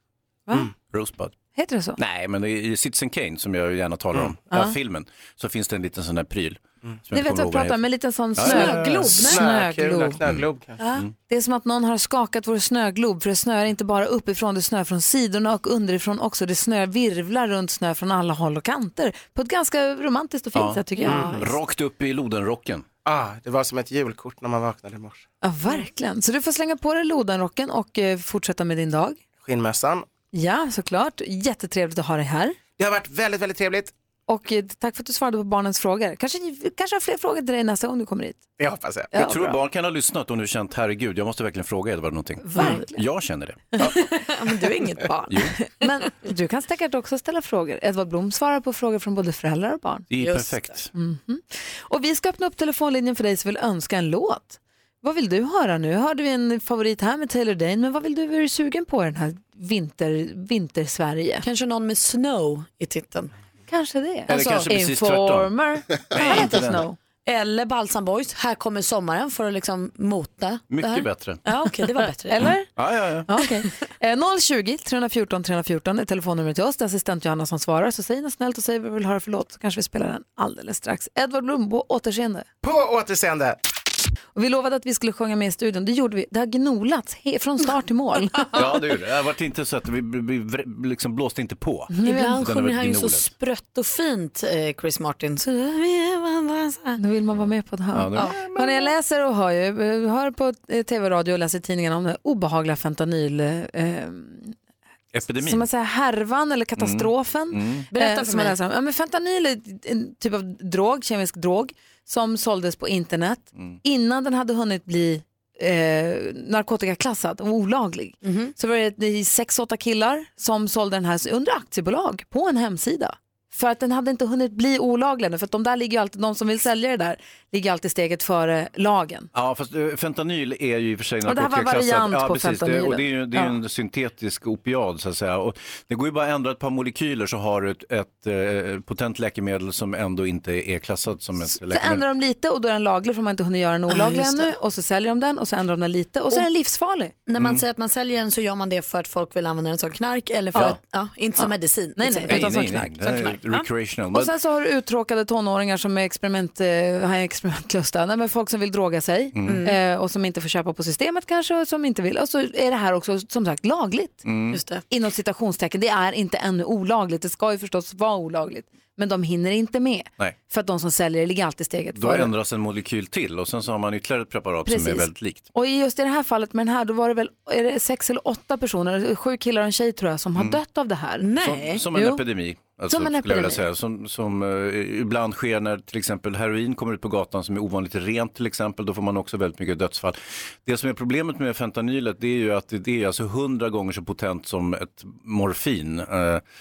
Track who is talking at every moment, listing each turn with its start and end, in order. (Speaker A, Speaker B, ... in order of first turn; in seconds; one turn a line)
Speaker A: 0.9-1.3
Speaker B: 1.5-2.0
Speaker A: 2.0-7.8
Speaker B: 4.5-4.7
Speaker B: 7.1-10.2
Speaker A: 8.3-9.3
Speaker C: 8.4-9.5
Speaker D: 9.2-10.8
Speaker A: 10.2-11.1
Speaker B: 10.9-21.5
Speaker A: 20.5-22.8
Speaker D: 23.1-25.2
Speaker B: 25.4-29.2
Speaker D: 29.4-30.1
Speaker B: 30.3-32.6
Speaker D: 32.8-33.9
Speaker B: 34.3-38.4
Speaker D: 38.6-39.6
Speaker B: 39.1-39.4
Speaker A: 39.1-43.9
Speaker B: 42.5-43.0
Speaker C: 42.5-42.8
Speaker C: 43.8-45.5
Speaker B: 45.6-50.1
Speaker A: 50.1-50.9
Speaker C: 50.2-50.8
Speaker B: 50.9-61.4
Speaker C: 61.4-63.3
Speaker B: 63.7-67.0
Speaker A: 64.3-65.5
Speaker A: 66.1-66.8
Speaker C: 67.2-72.5
Speaker A: 70.7-71.4
Speaker B: 72.2-72.7
Speaker A: 72.8-73.3
Speaker B: 73.3-82.5
Speaker D: 82.6-83.6
Speaker B: 84.3-88.6
Speaker A: 88.5-93.3
Speaker B: 91.9-92.4
Speaker C: 92.0-97.0
Speaker B: 97.0-104.5
Speaker A: 97.4-98.6
Speaker C: 98.1-98.4
Speaker A: 105.1-105.7
Speaker B: 105.4-129.3
Speaker A: 106.8-107.9
Speaker C: 107.9-108.5
Speaker C: 118.2-118.5
Speaker A: 129.3-142.0
Speaker B: 131.2-133.6
Speaker B: 141.5-147.1
Speaker C: 143.9-144.5
Speaker C: 147.3-153.6
Speaker A: 147.4-147.6
Speaker B: 151.4-153.4
Speaker A: 152.3-154.3
Speaker B: 154.1-164.2
Speaker A: 159.3-159.7
Speaker C: 159.4-159.8
Speaker A: 164.2-164.6
Speaker C: 164.5-164.8
Speaker B: 164.9-172.3
Speaker A: 171.9-175.4
Speaker B: 174.7-181.3
Speaker C: 181.2-181.8
Speaker A: 181.4-196.4
Speaker B: 181.9-182.2
Speaker B: 182.9-183.6